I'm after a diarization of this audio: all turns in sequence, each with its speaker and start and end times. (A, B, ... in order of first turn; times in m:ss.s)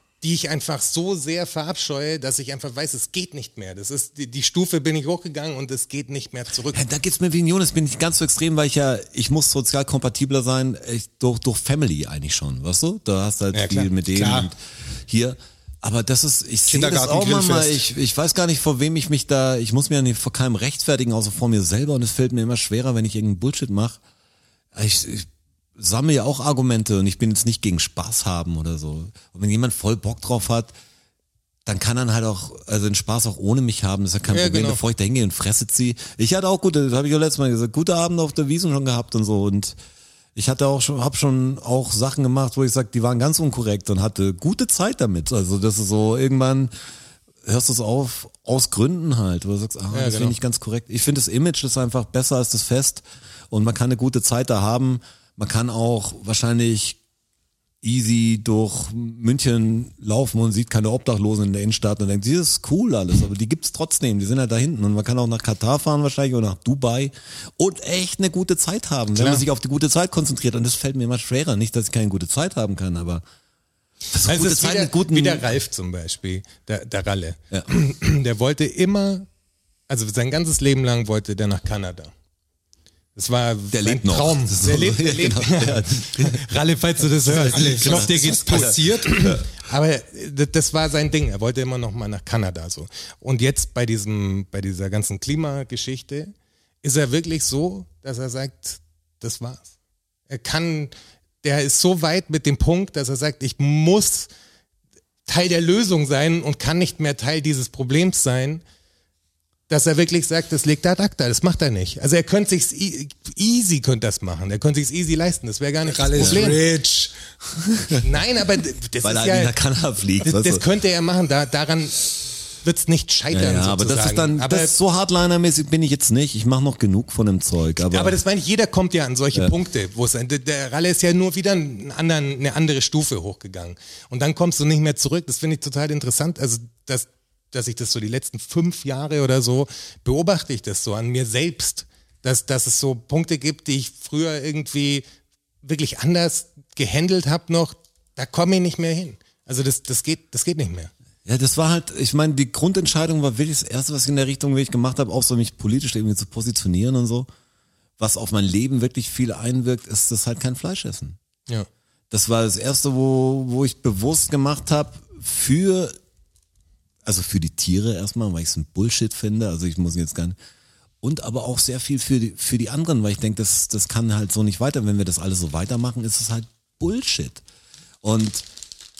0:00.2-0:06.8 A
0:06.7-0:24.0 B
0:13.5-0:13.9 A
0:14.1-0:14.5 C
0:16.7-0:17.8 C
0:24.7-0:30.7 B
0:31.6-0:39.8 B
0:34.3-0:34.8 A
0:40.3-0:46.7 B
0:47.4-0:57.0 B
0:49.9-0:50.4 A
0:57.8-1:13.2 B
1:09.1-1:09.4 A
1:14.1-1:15.5 B
1:14.2-1:19.3 A
1:19.9-1:22.1 A
1:23.2-1:39.7 A
1:23.7-1:26.4 B
1:27.3-1:29.4 B
1:27.3-1:29.2 C
1:40.3-1:44.3 A
1:45.3-1:48.6 A
1:49.7-1:56.6 A
1:55.8-1:57.1 C
1:56.2-1:56.5 B
1:57.6-1:58.0 B
1:58.0-1:59.5 A
1:59.0-2:00.6 B
2:00.2-2:04.7 A
2:03.3-2:08.2 B
2:07.9-2:25.0 A
2:25.6-2:30.9 A
2:31.3-2:37.3 B
2:38.0-2:41.2 B
2:42.1-2:46.0 B
2:47.0-2:50.4 B
2:51.0-2:57.4 B
2:58.0-2:58.4 B